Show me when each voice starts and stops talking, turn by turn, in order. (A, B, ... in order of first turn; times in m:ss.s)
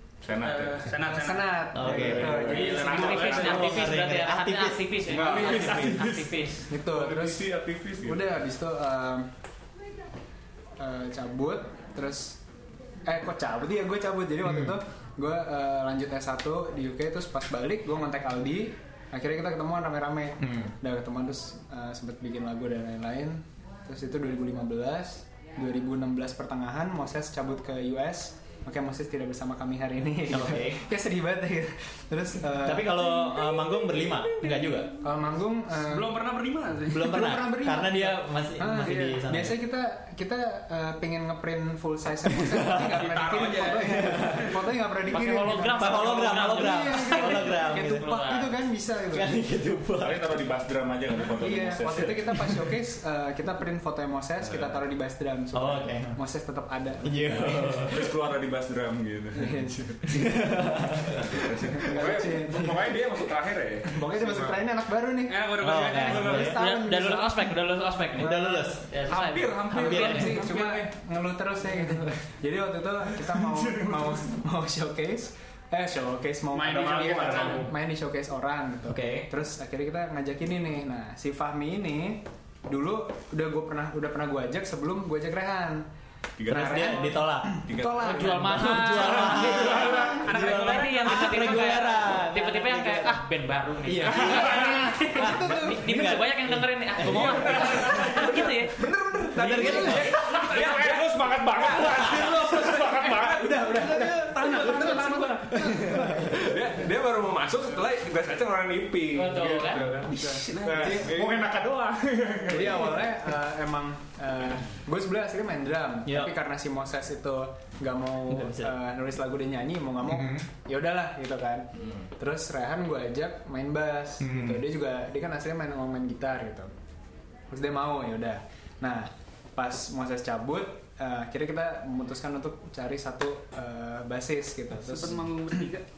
0:00.2-0:01.0 A
0:00.4-0:01.7 B
0:01.0-0:03.4 C
0:01.7-0:02.5 D
0:01.8-0:03.4 A
0:02.3-0:03.7 B
0:02.5-0:06.7 E
0:03.3-0:04.9 D
0:05.1-0:06.0 F
0:05.1-0:08.4 A
0:06.7-0:07.5 C
0:08.0-0:09.3 C
0:10.8-0:12.4 C
0:13.0-0:33.0 C
0:14.4-0:14.8 D
0:20.4-0:20.7 D
0:30.3-0:30.8 D
0:32.6-0:34.9 D
0:33.2-0:34.9 B
0:35.0-0:36.2 C
0:35.8-0:37.2 B
0:36.9-0:39.6 D
0:37.1-0:49.4 C
0:38.9-0:39.1 B
0:42.3-0:43.1 D
0:43.0-0:44.5 B
0:43.8-0:44.5 D
0:45.1-0:48.5 E
0:45.8-0:48.1 D
0:49.1-0:50.4 D
0:50.0-0:52.6 A
0:51.4-0:57.7 C
0:54.4-0:54.8 A
0:55.5-0:56.2 D
0:57.0-0:58.0 D
0:57.3-1:00.0 A
0:59.4-1:00.3 C
1:00.1-1:01.4 D
1:01.2-1:02.4 A
1:01.8-1:03.0 C
1:01.9-1:04.6 F
1:03.9-1:05.5 C
1:05.3-1:06.5 B
1:05.6-1:06.6 D
1:06.1-1:07.5 C
1:06.3-1:10.4 E
1:08.2-1:08.9 D
1:08.2-1:08.7 C
1:09.2-1:10.8 A
1:09.7-1:10.4 D
1:09.8-1:25.9 C
1:13.3-1:14.2 A
1:16.5-1:17.7 B
1:18.9-1:19.3 D
1:26.4-1:27.0 A
1:26.5-1:27.6 D
1:26.5-1:30.3 C
1:27.6-1:30.2 A
1:28.0-1:38.8 E
1:28.5-1:33.2 D
1:30.1-1:31.8 B
1:33.8-1:37.8 D
1:34.2-1:34.8 A
1:34.2-1:36.2 C
1:37.1-1:42.5 F
1:37.6-1:38.1 A
1:39.4-1:40.4 D
1:39.6-1:40.0 C
1:40.1-1:44.1 A
1:42.0-1:46.6 C
1:44.4-1:45.3 B
1:45.5-1:46.4 D
1:46.4-1:51.4 F
1:49.1-1:49.9 E
1:50.1-1:51.1 C
1:50.1-1:51.0 B
1:50.6-1:53.1 A
1:52.5-2:06.7 C
1:56.0-1:56.4 D
1:58.3-1:58.7 D
2:00.2-2:00.4 D
2:04.2-2:04.6 D
2:07.5-2:15.3 C
2:14.8-2:15.8 B